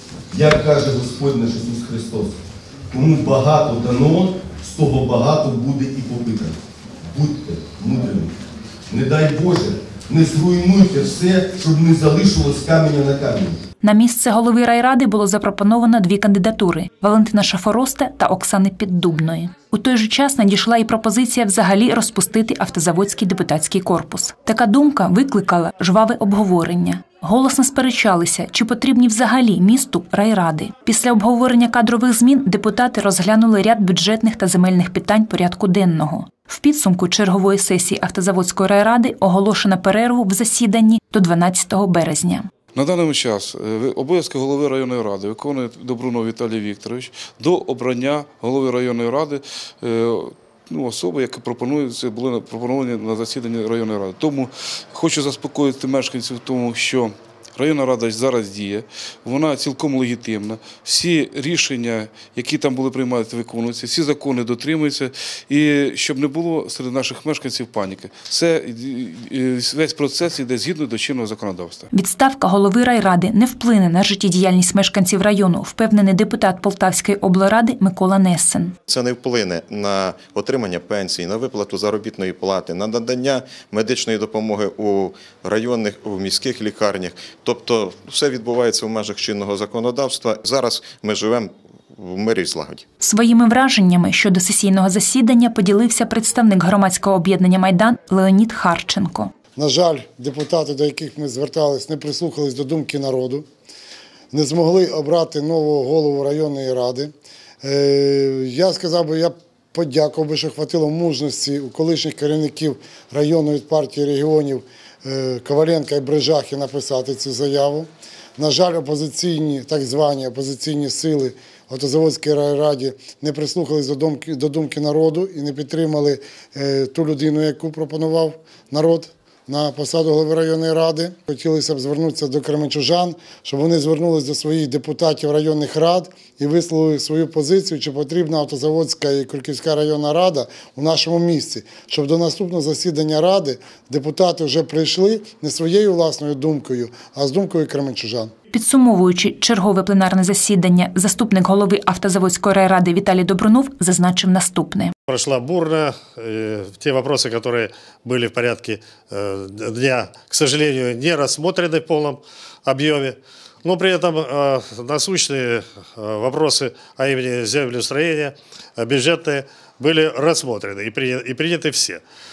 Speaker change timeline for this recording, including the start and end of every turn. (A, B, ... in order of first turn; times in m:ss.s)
0:00.3-0:02.4 A
0:02.9-0:08.4 A
0:08.9-0:13.6 A
0:13.8-0:42.5 B
0:42.7-1:11.9 C
1:11.9-1:18.8 B
1:18.9-1:32.8 D
1:33.0-1:39.3 B
1:39.6-1:43.5 E
1:44.3-1:47.1 E
1:47.6-2:28.3 E
2:28.5-2:34.9 B
2:35.1-2:52.0 F